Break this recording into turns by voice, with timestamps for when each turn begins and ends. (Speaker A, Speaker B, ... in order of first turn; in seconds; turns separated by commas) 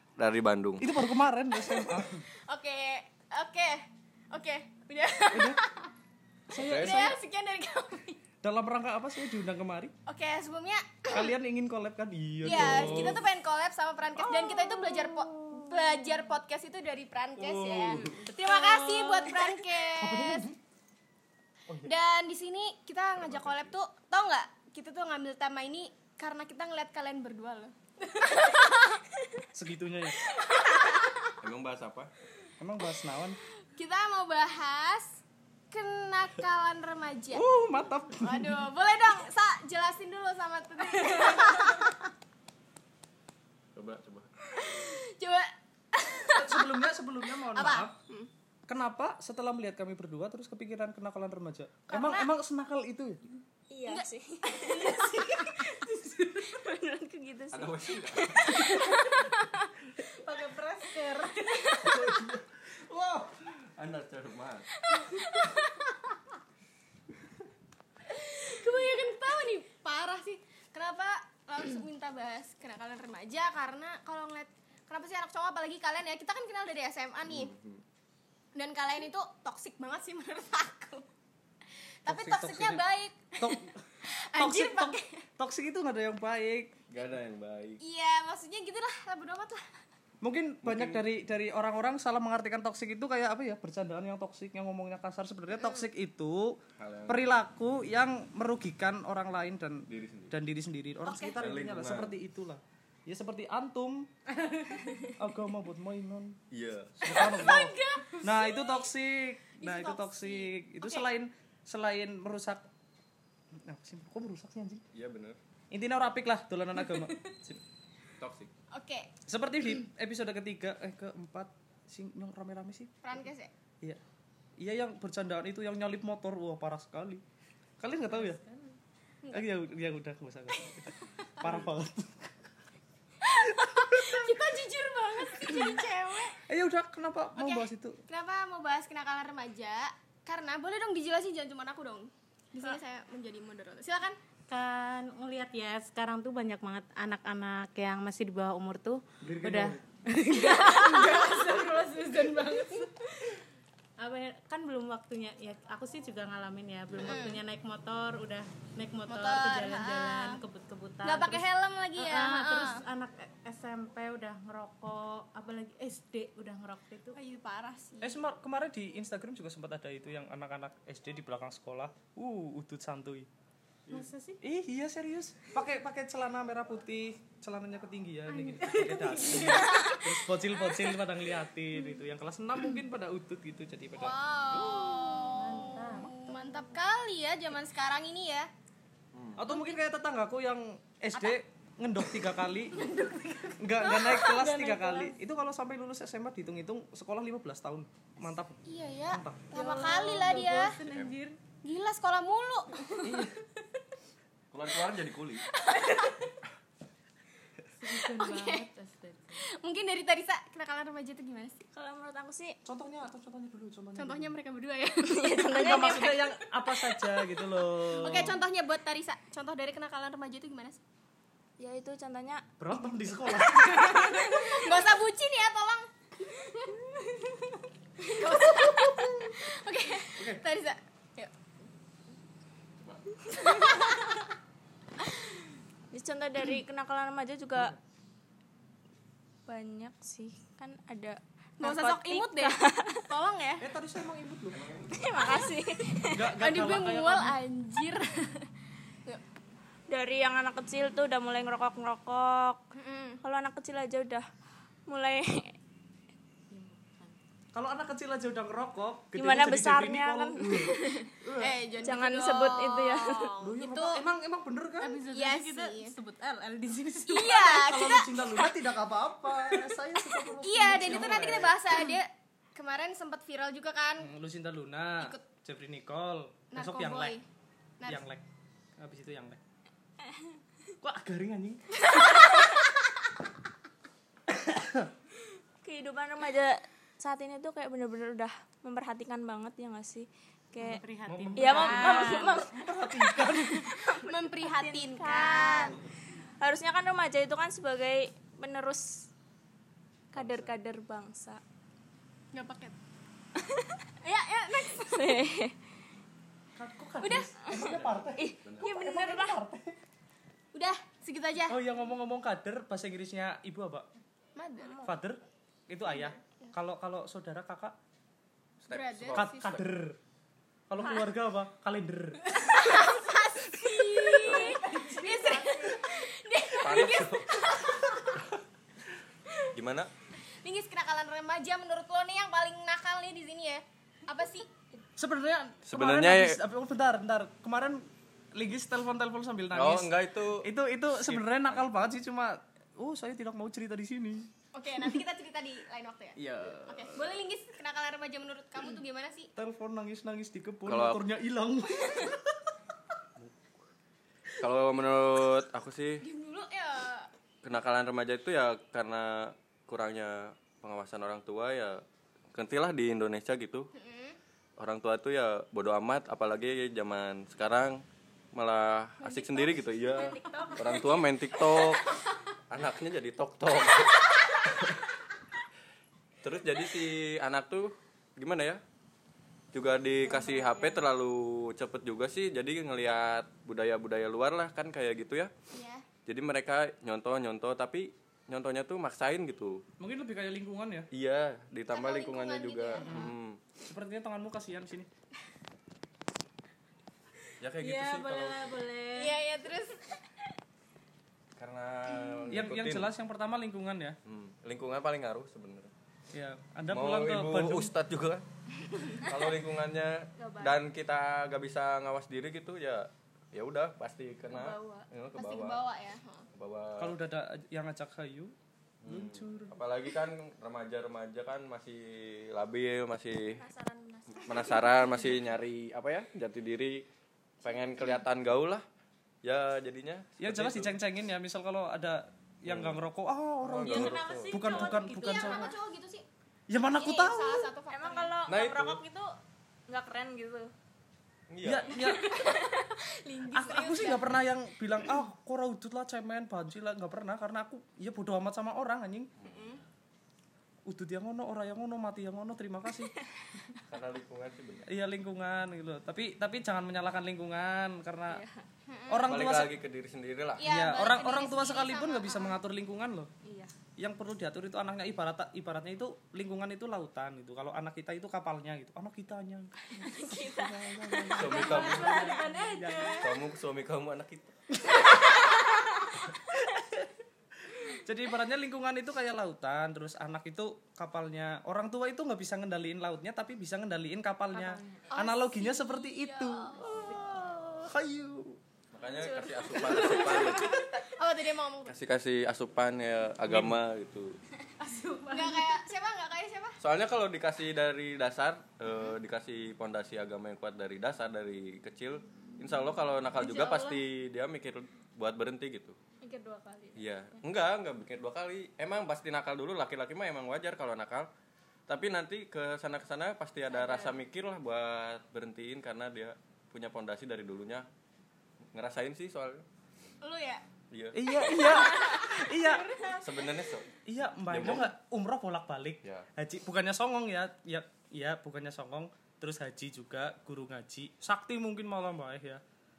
Speaker A: 0.2-0.9, Speaker B: 0.8-2.2, Speaker C: 1.7-5.9, Speaker B: 5.3-5.6, Speaker B: 6.5-7.2, Speaker A: 6.6-7.1, Speaker C: 6.7-8.2, Speaker B: 8.4-9.9, Speaker C: 10.1-11.3, Speaker B: 11.1-13.2, Speaker C: 12.4-20.4, Speaker A: 12.4-13.1, Speaker B: 14.4-15.7, Speaker B: 17.4-19.4, Speaker B: 19.9-20.6, Speaker C: 21.8-29.2, Speaker A: 23.1-23.7, Speaker B: 29.5-30.2, Speaker C: 30.2-31.4, Speaker A: 31.4-32.1, Speaker B: 32.6-33.4, Speaker C: 33.7-35.2, Speaker C: 35.7-37.4, Speaker B: 37.3-38.6, Speaker C: 38.2-42.0, Speaker A: 43.7-44.3, Speaker C: 44.5-46.7, Speaker B: 46.3-47.9, Speaker C: 47.5-48.3, Speaker B: 48.7-53.4, Speaker C: 51.9-52.3, Speaker D: 53.7-59.7, Speaker C: 53.9-55.6, Speaker A: 57.5-58.6, Speaker E: 60.1-61.6, Speaker D: 61.4-62.1, Speaker A: 61.8-64.7, Speaker D: 64.9-65.5, Speaker C: 65.3-65.9, Speaker C: 68.0-77.5, Speaker A: 77.2-77.8, Speaker C: 78.5-81.1, Speaker C: 82.0-85.2, Speaker B: 82.1-82.8, Speaker B: 83.4-86.7, Speaker A: 86.9-87.8, Speaker C: 87.8-89.6, Speaker B: 90.2-104.1, Speaker A: 90.6-91.0, Speaker A: 96.8-97.3, Speaker A: 99.9-100.3, Speaker C: 101.1-101.4, Speaker A: 101.3-102.1, Speaker E: 104.4-104.8, Speaker B: 105.1-106.4, Speaker A: 106.5-107.3, Speaker B: 107.0-112.7, Speaker C: 107.1-108.9, Speaker C: 109.6-111.0, Speaker B: 113.6-114.8, Speaker A: 114.9-115.4, Speaker B: 115.7-117.6, Speaker A: 118.2-118.5, Speaker C: 118.7-119.1, Speaker B: 119.3-122.9, Speaker C: 123.0-123.5, Speaker B: 124.6-127.2, Speaker B: 127.8-128.4, Speaker E: 128.1-128.7, Speaker B: 129.3-132.3, Speaker A: 131.4-131.7, Speaker B: 133.3-134.3, Speaker C: 133.6-136.4, Speaker B: 136.4-138.0, Speaker C: 137.4-144.2, Speaker E: 144.5-153.2, Speaker B: 149.2-149.8, Speaker C: 150.6-151.7, Speaker E: 154.0-167.2, Speaker C: 157.0-157.4, Speaker C: 159.1-160.4, Speaker C: 161.0-162.8, Speaker C: 167.1-168.2, Speaker B: 168.0-173.3, Speaker E: 173.9-174.4, Speaker B: 173.9-184.1, Speaker E: 178.3-180.0, Speaker C: 179.3-180.0, Speaker C: 183.9-188.5, Speaker A: 184.5-184.8, Speaker E: 185.0-186.6, Speaker A: 189.1-189.4, Speaker B: 189.4-192.9, Speaker E: 192.9-193.2, Speaker B: 193.6-199.5, Speaker C: 193.9-194.2, Speaker E: 194.2-195.1, Speaker C: 198.6-200.8, Speaker E: 199.5-201.4, Speaker A: 200.8-201.1, Speaker C: 201.6-203.3, Speaker B: 203.0-203.3, Speaker A: 204.5-205.4, Speaker C: 205.5-206.2, Speaker E: 207.8-209.4, Speaker C: 207.9-208.7, Speaker C: 209.4-211.6, Speaker D: 211.7-212.6, Speaker B: 212.6-214.3, Speaker C: 213.9-215.9, Speaker D: 215.1-216.4, Speaker B: 215.4-218.4, Speaker C: 217.9-220.8, Speaker D: 221.6-222.4, Speaker B: 222.6-224.3, Speaker C: 223.4-227.4, Speaker C: 228.0-231.3, Speaker B: 229.0-229.3, Speaker B: 230.1-230.4, Speaker C: 233.3-234.2, Speaker D: 235.9-237.7, Speaker D: 239.5-243.0, Speaker C: 241.6-243.6, Speaker B: 243.6-244.6, Speaker A: 244.5-245.1, Speaker D: 244.9-246.2, Speaker B: 246.1-247.4, Speaker C: 246.4-248.4, Speaker D: 249.9-252.6, Speaker C: 252.7-253.2, Speaker D: 253.2-254.3, Speaker D: 254.9-255.6, Speaker E: 256.5-257.2, Speaker B: 257.5-261.6, Speaker D: 259.1-260.4, Speaker C: 260.6-264.0, Speaker D: 261.8-263.3, Speaker B: 263.4-265.0, Speaker E: 264.8-267.4, Speaker C: 265.1-265.9, Speaker C: 267.1-268.5, Speaker B: 267.1-271.9, Speaker C: 269.5-269.7, Speaker C: 270.3-274.1, Speaker B: 274.0-277.2, Speaker C: 276.5-277.2, Speaker B: 277.9-278.2, Speaker B: 278.8-279.4, Speaker B: 280.8-281.8, Speaker B: 284.3-284.9, Speaker D: 285.6-290.8, Speaker E: 290.6-292.2, Speaker B: 291.1-293.8, Speaker D: 291.4-295.8, Speaker C: 291.6-292.3, Speaker C: 294.0-295.8, Speaker D: 296.4-299.1, Speaker D: 300.1-301.4, Speaker A: 300.1-300.5, Speaker C: 302.3-302.8, Speaker D: 303.4-303.8, Speaker C: 304.0-305.2, Speaker D: 304.7-305.5, Speaker B: 306.6-309.7, Speaker C: 307.0-307.4, Speaker A: 307.5-308.8, Speaker D: 308.2-309.4, Speaker C: 310.5-311.6, Speaker B: 311.5-313.9, Speaker C: 314.4-314.9, Speaker B: 314.8-317.8, Speaker C: 315.9-316.5, Speaker A: 318.6-319.6, Speaker C: 318.7-319.6, Speaker B: 319.1-320.0, Speaker B: 320.7-322.5, Speaker C: 322.4-328.2, Speaker E: 324.1-325.7, Speaker A: 326.5-328.4, Speaker A: 329.5-329.9, Speaker C: 330.4-334.5, Speaker B: 335.0-344.3, Speaker A: 335.6-336.4, Speaker A: 339.5-341.7, Speaker C: 344.5-349.3, Speaker A: 346.1-347.2, Speaker B: 349.4-352.4, Speaker A: 350.6-351.0, Speaker A: 353.2-353.4, Speaker A: 354.4-356.0, Speaker C: 356.0-357.1, Speaker A: 357.4-361.8, Speaker A: 362.3-363.7, Speaker C: 363.7-364.2, Speaker A: 364.6-367.8, Speaker A: 368.3-371.9, Speaker C: 369.0-370.9, Speaker D: 370.0-370.9, Speaker A: 372.5-374.9, Speaker A: 376.2-378.6, Speaker A: 379.5-385.3, Speaker D: 380.0-380.8, Speaker C: 385.5-385.8, Speaker A: 386.1-389.6, Speaker B: 389.8-390.9, Speaker A: 390.9-393.4, Speaker C: 391.7-392.9, Speaker B: 392.8-393.1, Speaker B: 393.7-394.9, Speaker A: 397.4-398.6, Speaker D: 397.6-399.2, Speaker C: 398.9-399.9, Speaker A: 401.4-402.9, Speaker B: 402.3-404.0, Speaker A: 404.0-405.7, Speaker B: 406.1-407.7, Speaker A: 406.7-408.2, Speaker A: 408.8-415.6, Speaker D: 410.2-410.6, Speaker D: 414.3-414.9, Speaker C: 415.1-416.2, Speaker A: 416.3-416.9, Speaker B: 416.8-418.3, Speaker A: 418.8-423.4, Speaker B: 418.8-419.6, Speaker D: 423.3-425.2, Speaker A: 424.2-426.8, Speaker A: 427.4-428.6, Speaker A: 429.2-430.7, Speaker B: 430.2-435.5, Speaker A: 432.4-432.8, Speaker A: 433.4-434.8, Speaker C: 433.7-436.1, Speaker D: 433.8-435.6, Speaker B: 436.5-437.5, Speaker C: 436.6-438.1, Speaker D: 437.7-439.1, Speaker A: 438.3-438.8, Speaker D: 439.7-440.5, Speaker A: 441.3-442.0, Speaker B: 441.4-442.1, Speaker D: 442.1-442.7, Speaker C: 442.2-444.1, Speaker B: 443.3-449.1, Speaker A: 449.2-449.6, Speaker C: 449.2-449.6, Speaker B: 450.7-452.9, Speaker A: 453.6-454.7, Speaker B: 454.7-458.2, Speaker D: 458.1-458.4, Speaker C: 458.7-459.1, Speaker B: 458.9-459.6, Speaker A: 459.1-460.5, Speaker C: 460.4-462.3, Speaker B: 460.4-463.1, Speaker D: 463.2-463.5, Speaker B: 463.8-473.0, Speaker D: 469.9-472.8, Speaker A: 471.1-472.1, Speaker E: 471.4-473.1, Speaker A: 473.0-474.4, Speaker B: 476.3-476.9, Speaker B: 477.5-488.4, Speaker E: 484.3-484.9, Speaker C: 484.9-486.7, Speaker E: 486.7-487.1, Speaker A: 488.7-490.6, Speaker D: 489.0-490.3, Speaker C: 489.5-491.8, Speaker A: 491.6-494.2, Speaker B: 493.2-493.6, Speaker E: 494.6-495.6, Speaker C: 495.1-496.6, Speaker A: 496.6-505.8, Speaker C: 503.2-503.8, Speaker C: 506.0-506.8, Speaker A: 506.7-511.1, Speaker A: 511.7-517.7, Speaker C: 513.5-513.9, Speaker A: 518.5-519.4, Speaker C: 520.0-520.4, Speaker A: 520.7-521.0, Speaker B: 520.9-522.7, Speaker C: 521.3-523.1, Speaker A: 523.0-523.7, Speaker B: 523.9-532.4, Speaker A: 524.2-524.7